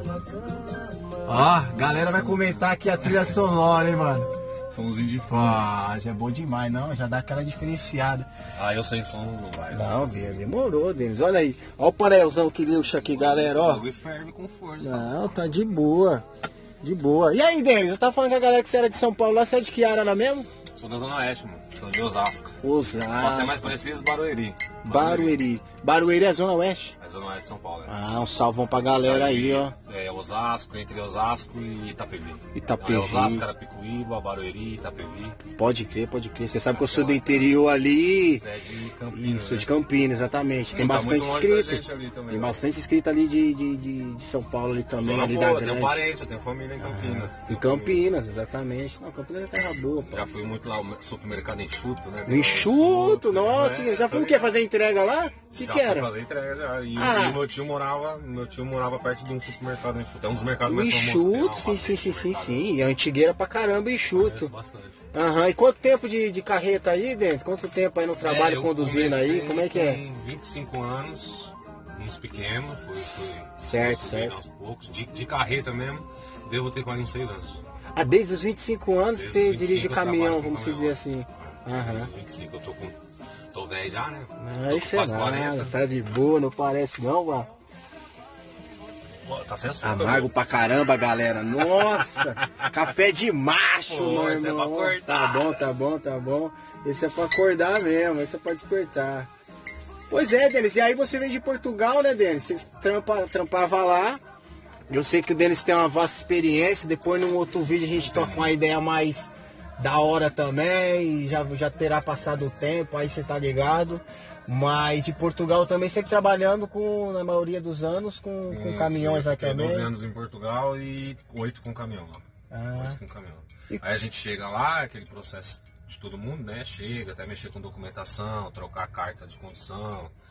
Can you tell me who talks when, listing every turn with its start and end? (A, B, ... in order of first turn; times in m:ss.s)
0:01.2-0:04.3 A
0:01.4-0:03.4 B
0:04.7-0:05.7 B
0:05.3-0:08.3 A
0:08.5-0:10.4 B
0:09.7-0:13.8 A
0:12.9-0:15.3 B
0:14.8-0:16.2 A
0:16.8-0:20.5 A
0:20.7-0:22.6 B
0:22.6-0:23.7 A
0:23.1-0:25.4 B
0:24.8-0:27.0 A
0:27.0-0:28.0 B
0:27.9-0:29.7 A
0:29.0-0:35.4 B
0:32.5-0:33.4 A
0:35.6-0:38.4 A
0:36.6-0:37.6 B
0:38.3-0:39.7 B
0:39.1-0:46.0 A
0:40.7-0:42.6 B
0:44.9-0:48.1 B
0:46.8-0:50.2 A
0:50.0-0:54.6 B
0:52.2-0:56.1 A
0:55.5-1:02.6 B
0:57.0-0:57.4 A
1:00.6-1:04.5 A
1:04.1-1:05.0 B
1:05.1-1:10.0 A
1:08.2-1:17.6 B
1:13.0-1:14.4 A
1:17.9-1:22.1 A
1:19.1-1:23.0 B
1:23.5-1:25.7 B
1:24.4-1:27.5 A
1:29.2-1:30.6 B
1:29.8-1:39.3 A
1:31.6-1:32.7 B
1:33.8-1:35.6 B
1:40.1-1:44.2 A
1:44.9-1:59.9 A
1:47.9-1:48.5 B
1:58.5-2:02.2 B
2:02.5-2:03.0 A
2:02.7-2:10.1 B